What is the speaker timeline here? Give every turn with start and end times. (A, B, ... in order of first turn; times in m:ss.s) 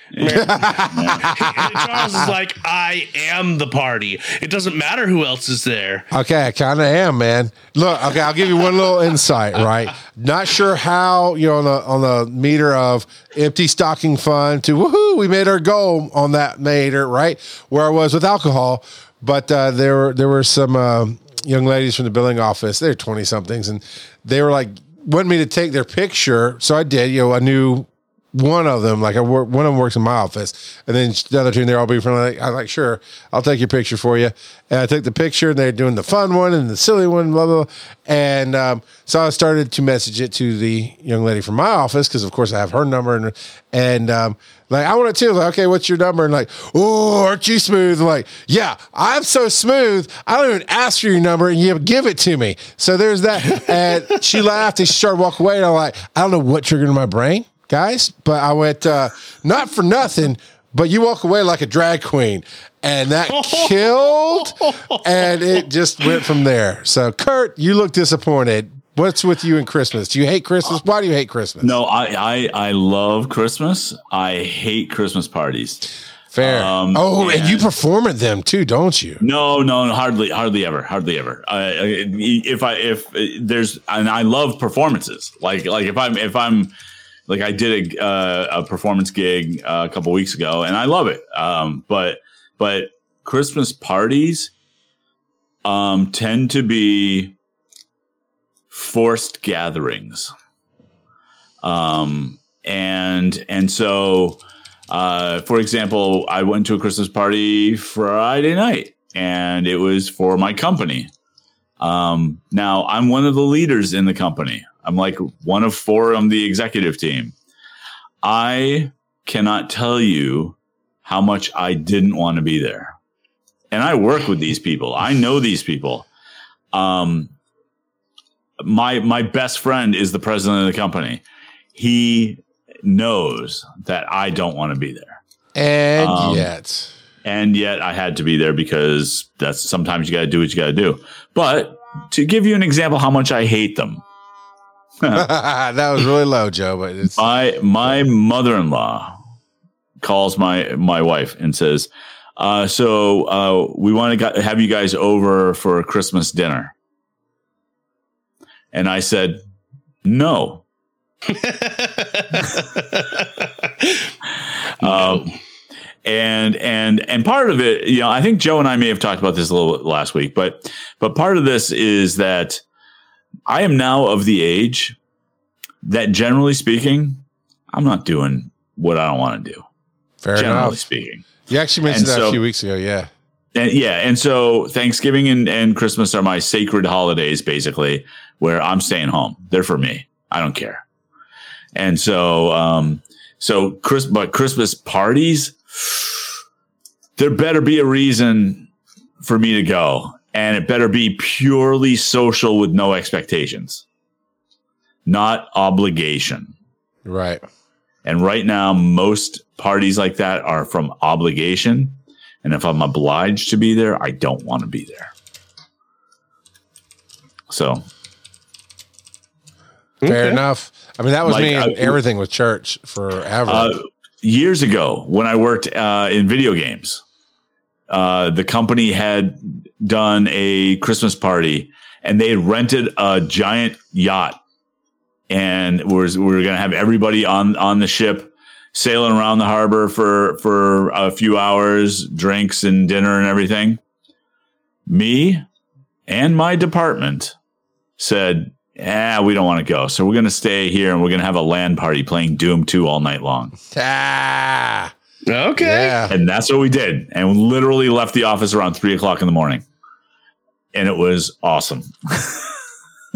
0:00.1-0:01.3 A
0:00.2-0:06.1 B
0:00.3-0:02.2 C
0:06.1-1:11.8 C
1:03.3-1:03.8 B
1:04.4-1:05.0 B
1:11.6-1:15.8 A
1:16.3-1:19.2 C
1:16.4-1:17.7 A
1:19.2-1:26.7 A
1:27.3-1:34.5 A
1:35.6-1:37.4 A
1:38.7-1:40.3 A
1:41.6-1:51.1 A
1:51.8-1:57.4 A
1:58.2-2:03.0 A
2:03.7-2:06.1 A
2:06.7-2:07.3 A
2:08.6-2:11.2 A
2:11.8-2:15.2 A
2:15.6-2:16.9 C
2:16.0-2:16.5 A
2:17.2-2:24.0 A
2:25.1-2:27.3 C
2:27.2-2:29.2 A
2:30.0-2:36.7 A
2:38.7-2:39.4 A
2:40.0-2:40.6 A
2:41.3-2:44.1 B
2:44.8-2:45.3 A
2:44.9-2:45.3 B
2:46.0-2:52.6 A
2:53.5-2:55.0 A
2:55.8-2:59.6 A
3:00.2-3:00.8 C
3:00.4-3:02.4 A
3:01.5-3:03.1 C
3:03.6-3:10.8 A
3:11.8-3:16.2 A
3:17.2-3:18.7 A
3:19.2-3:23.8 A
3:25.1-3:26.5 A
3:27.0-3:27.4 C
3:28.0-3:35.1 A
3:37.5-3:37.8 A
3:40.0-3:40.4 B
3:40.1-3:43.7 C
3:41.2-3:42.0 A
3:43.5-3:47.0 A
3:47.9-3:54.4 A
3:55.3-4:03.8 A
4:04.9-4:05.4 A
4:06.1-4:07.4 A
4:08.0-4:13.5 A
4:13.7-4:14.9 C
4:15.3-4:16.0 B
4:15.6-4:16.2 C
4:16.1-4:19.6 A
4:20.7-4:22.4 A